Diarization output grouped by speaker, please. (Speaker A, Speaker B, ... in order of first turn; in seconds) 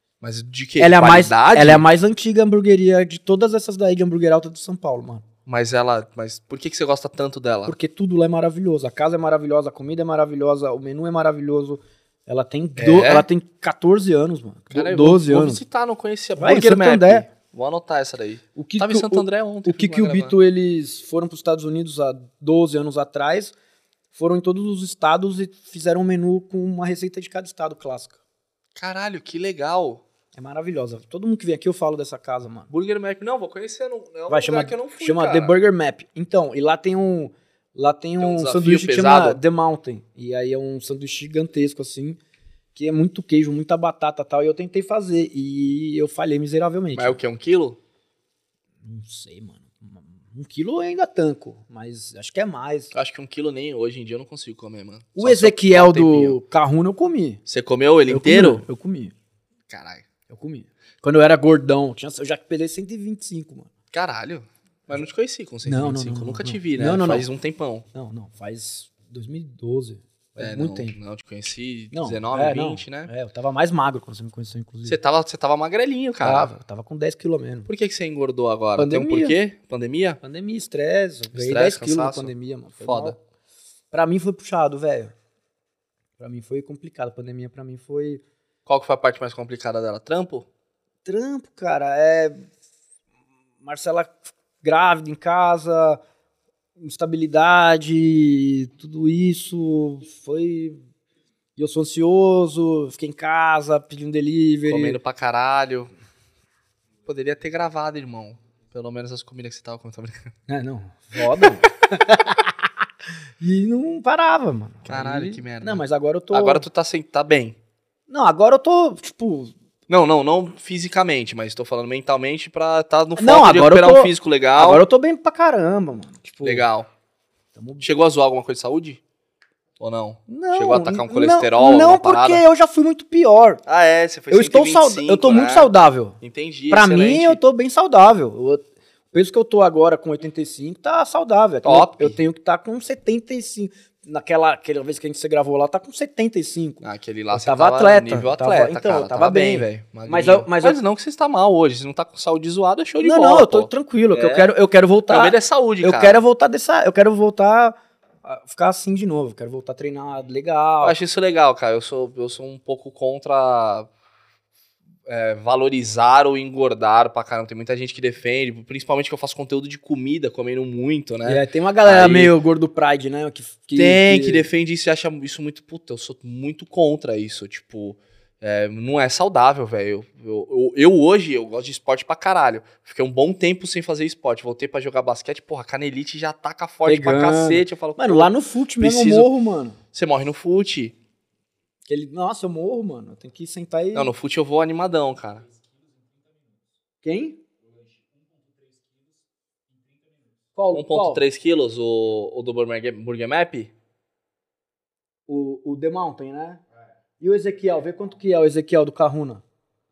Speaker A: 0.2-1.8, 5.5-7.7, 12.8-13.3, 14.7-20.3, 28.8-30.0, 32.7-35.5, 38.2-39.4, 46.9-47.8, 52.9-56.4, 57.5-58.6, 59.7-60.0, 63.9-67.8, 70.4-73.1, 74.8-76.5, 77.7-80.2, 81.3-83.2, 88.7-90.5, 104.6-105.9, 107.0-110.3, 114.8-117.6, 119.9-124.8, 126.4-126.9, 127.8-129.0, 129.8-132.4, 133.7-137.4, 141.6-142.2, 146.8-154.5, 155.1-156.2, 160.8-163.9, 165.1-172.3, 173.8-189.3, 189.9-190.9, 193.9-195.5, 200.7-203.7
Speaker B: 0.8-5.2, 7.7-15.6, 16.4-17.3, 18.5-23.5, 24.1-28.2, 30.3-32.7, 34.3-42.2, 42.7-47.2, 48.8-52.9, 55.1-57.4, 58.1-59.1, 60.3-63.7, 65.6-67.3, 67.9-71.0, 71.9-75.0, 76.2-77.7, 78.8-79.4, 80.2-83.2, 83.9-85.1, 86.2-88.2, 91.0-92.5, 93.6-96.0, 96.8-100.8, 101.6-105.0, 110.5-112.5, 113.4-116.6, 118.1-119.5, 123.2-126.7, 127.5-127.8, 130.3-133.6, 134.3-136.2, 136.7-150.8, 153.0-161.0, 171.2-174.5, 186.8-189.8, 191.9-194.1, 197.0-197.4, 200.5-201.2, 205.3-206.6, 207.2-209.4